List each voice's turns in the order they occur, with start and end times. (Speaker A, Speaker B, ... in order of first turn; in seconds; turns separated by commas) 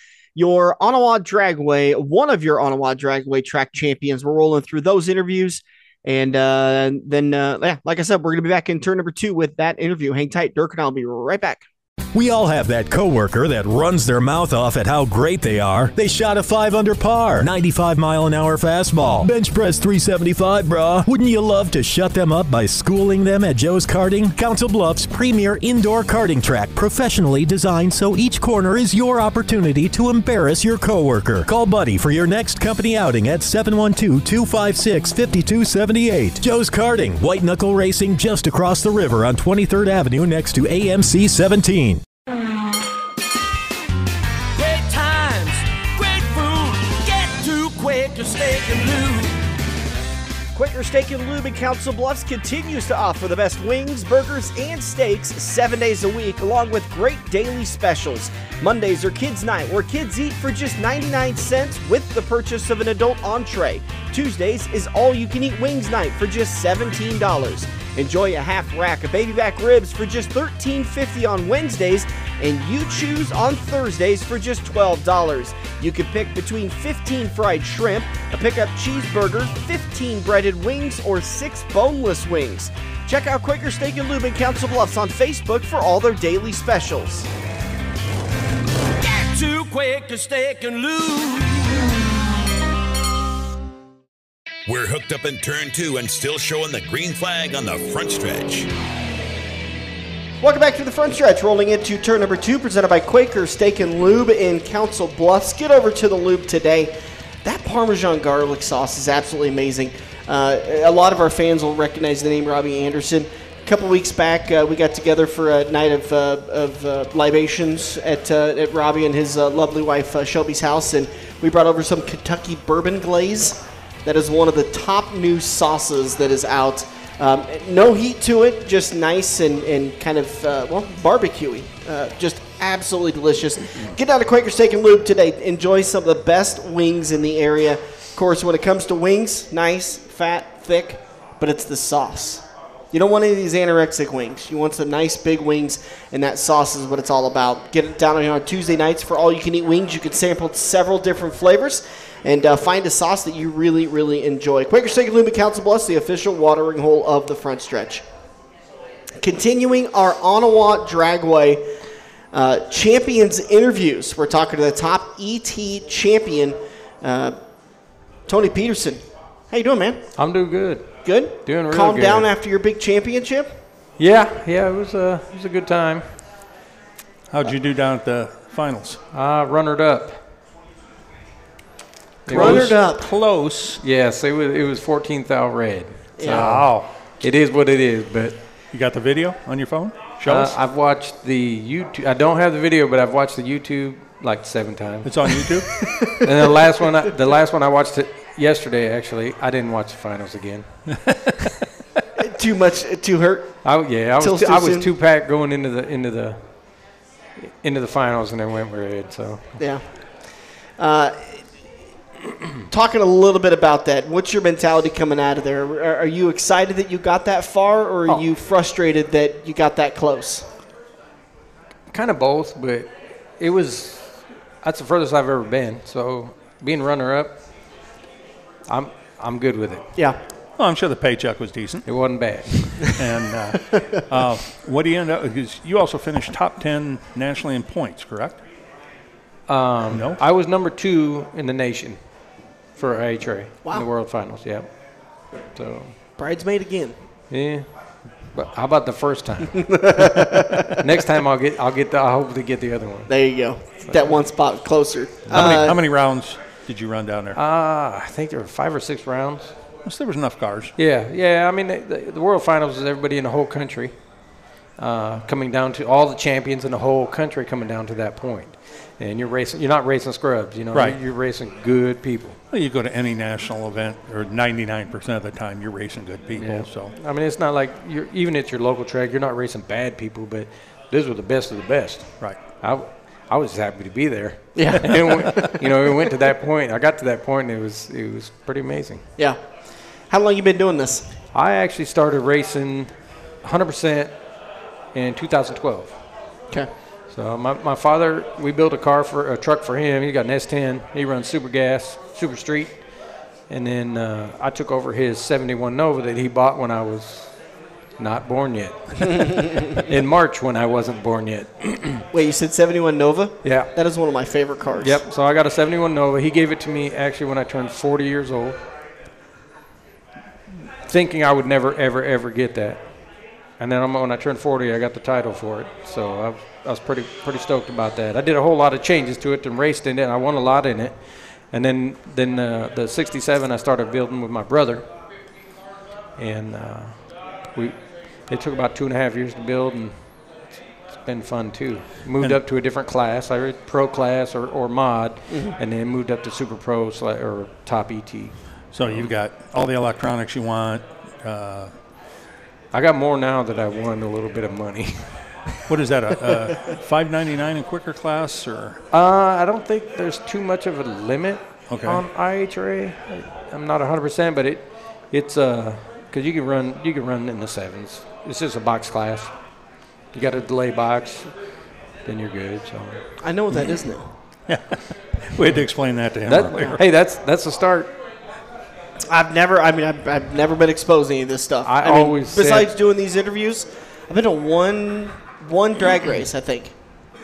Speaker A: 0.3-11.6, Speaker B: 12.1-42.0, Speaker C: 44.6-49.4, Speaker A: 50.5-87.3, Speaker C: 89.0-92.0, Speaker D: 94.7-98.7, Speaker A: 100.4-158.1, Speaker A: 159.2-161.8, Speaker A: 162.3-167.4, Speaker A: 168.2-173.6, Speaker E: 170.2-172.3, Speaker E: 174.0-176.3, Speaker F: 177.3-179.0, Speaker E: 179.1-180.3, Speaker E: 182.3-182.9, Speaker F: 182.3-183.8, Speaker A: 182.3-183.1, Speaker E: 183.8-188.5, Speaker A: 186.2-186.6, Speaker F: 186.3-187.0, Speaker F: 188.7-190.6, Speaker E: 190.2-195.5, Speaker F: 195.0-195.8, Speaker A: 195.8-196.2, Speaker E: 196.1-200.8, Speaker F: 200.9-201.4, Speaker A: 202.2-204.9, Speaker E: 203.6-209.7, Speaker A: 209.6-211.4, Speaker A: 212.7-220.5, Speaker E: 221.9-227.7, Speaker E: 228.7-230.1, Speaker F: 230.6-232.3, Speaker E: 231.8-233.0, Speaker F: 232.9-238.4, Speaker E: 239.5-246.0, Speaker F: 239.9-240.2, Speaker A: 246.2-247.0, Speaker E: 247.3-250.0, Speaker A: 249.8-250.6, Speaker E: 250.8-254.2, Speaker A: 253.1-255.8, Speaker F: 255.3-257.4, Speaker E: 255.3-255.7, Speaker E: 257.3-259.8, Speaker F: 259.8-260.8, Speaker E: 260.8-272.4, Speaker F: 270.7-271.0, Speaker F: 272.5-277.0, Speaker E: 276.3-289.1, Speaker F: 282.2-282.4, Speaker A: 284.6-285.5, Speaker F: 284.9-285.5, Speaker A: 289.2-291.1, Speaker E: 291.3-294.4, Speaker E: 294.9-296.1, Speaker E: 297.1-302.9, Speaker E: 303.5-307.5, Speaker E: 308.0-312.1, Speaker A: 312.1-315.0, Speaker E: 313.4-313.9, Speaker E: 314.8-318.6, Speaker E: 320.9-335.0, Speaker E: 336.2-349.1, Speaker A: 345.3-345.6, Speaker F: 348.7-351.7, Speaker E: 352.7-355.7, Speaker F: 355.7-358.8, Speaker E: 358.9-369.6, Speaker F: 361.7-362.1, Speaker E: 370.1-373.2, Speaker A: 373.2-374.1, Speaker F: 374.5-376.8, Speaker E: 376.2-378.0, Speaker A: 379.1-386.8, Speaker E: 381.6-382.7